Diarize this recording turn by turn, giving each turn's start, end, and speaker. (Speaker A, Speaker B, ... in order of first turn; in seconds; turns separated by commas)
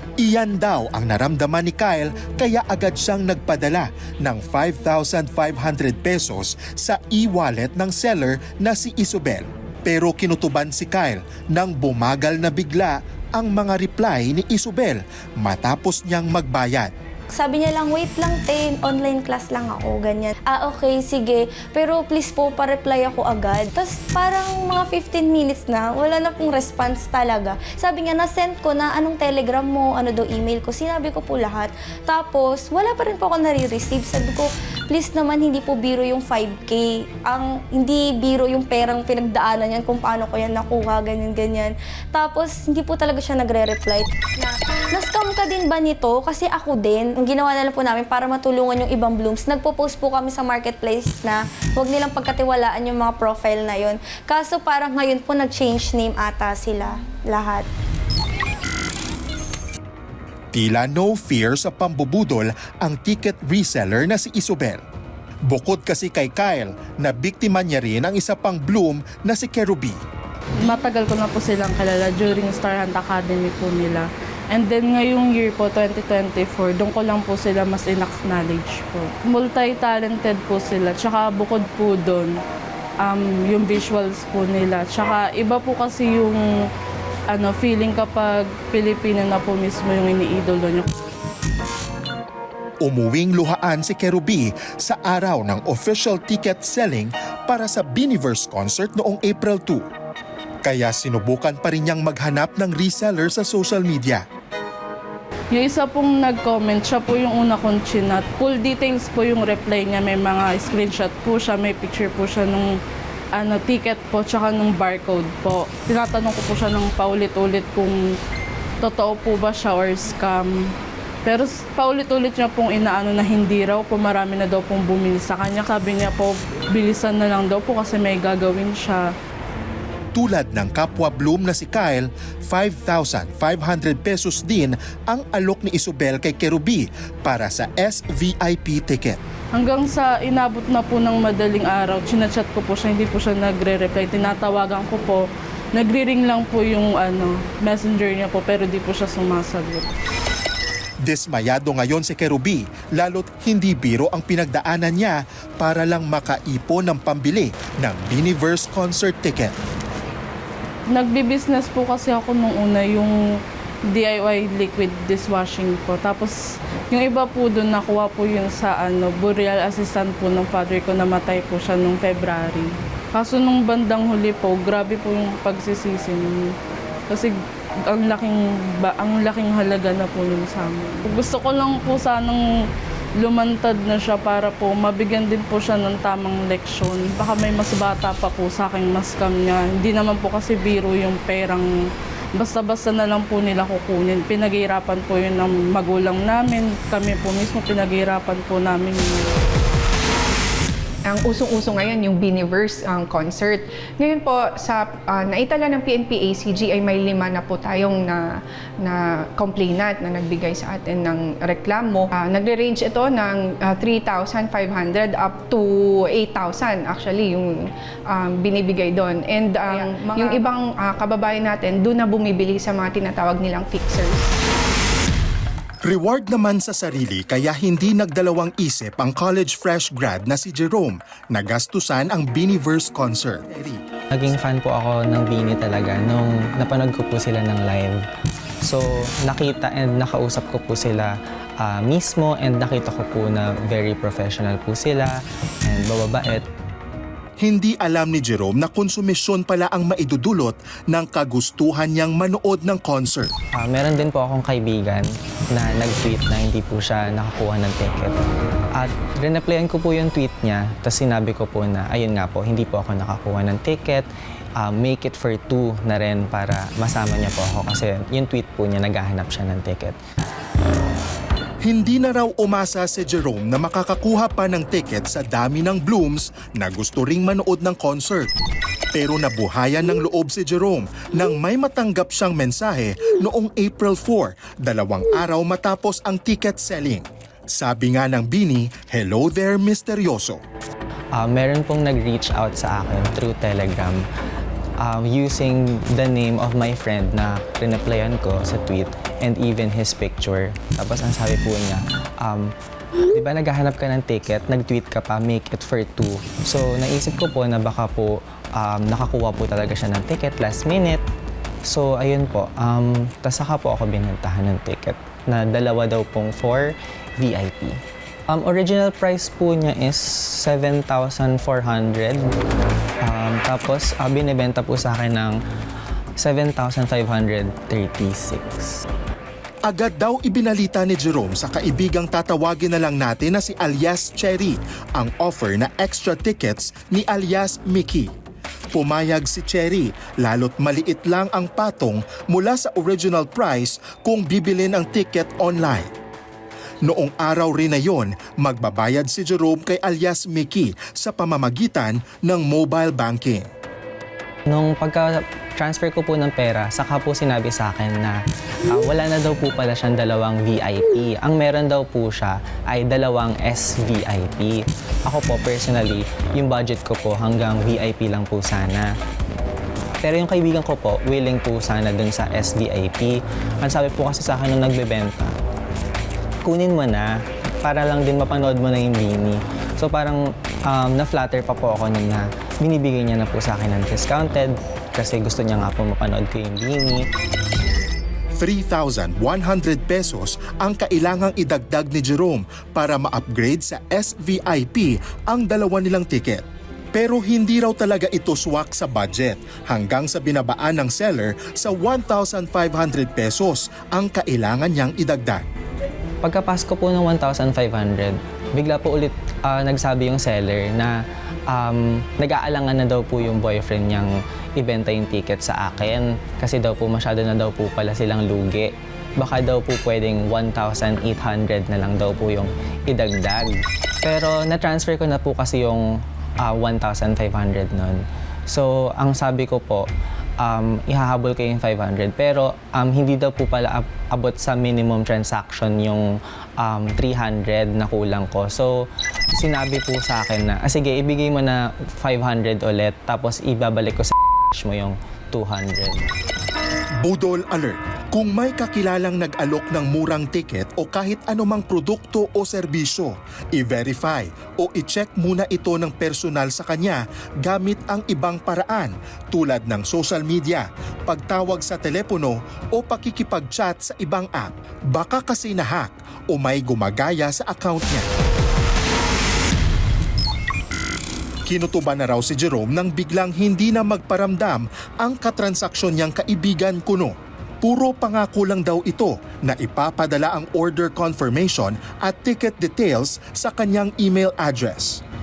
Speaker A: 0.2-16.9, Speaker B: 17.3-57.7, Speaker A: 60.5-64.8, Speaker A: 65.5-70.0, Speaker C: 70.6-82.4, Speaker C: 83.0-86.5, Speaker C: 87.3-90.9, Speaker A: 92.8-99.8, Speaker A: 100.6-104.2, Speaker C: 105.5-112.8, Speaker C: 113.3-118.0, Speaker C: 118.8-120.7, Speaker C: 121.2-129.1, Speaker A: 130.1-139.2, Speaker C: 139.5-149.9, Speaker A: 151.0-159.6, Speaker C: 160.9-163.2, Speaker C: 163.9-166.4, Speaker C: 166.9-176.5, Speaker C: 177.1-177.4, Speaker C: 177.9-199.4, Speaker D: 201.1-208.3, Speaker D: 208.8-224.4, Speaker A: 225.8-233.8, Speaker E: 234.1-238.0, Speaker E: 238.6-246.5, Speaker A: 247.4-253.3, Speaker E: 253.5-258.2, Speaker E: 258.7-264.1, Speaker E: 264.6-270.0, Speaker A: 271.6-278.3, Speaker A: 278.9-290.4, Speaker E: 291.1-294.1, Speaker E: 294.8-302.5, Speaker E: 303.1-311.0, Speaker E: 311.6-322.2, Speaker E: 323.0-325.4, Speaker E: 326.2-328.8, Speaker A: 329.6-338.1, Speaker A: 338.7-345.9, Speaker A: 346.8-353.5, Speaker E: 354.5-368.9, Speaker E: 370.0-375.4, Speaker E: 376.4-387.1, Speaker A: 388.4-405.4, Speaker E: 406.2-429.9, Speaker E: 430.4-446.1, Speaker A: 447.0-468.1, Speaker A: 471.5-485.0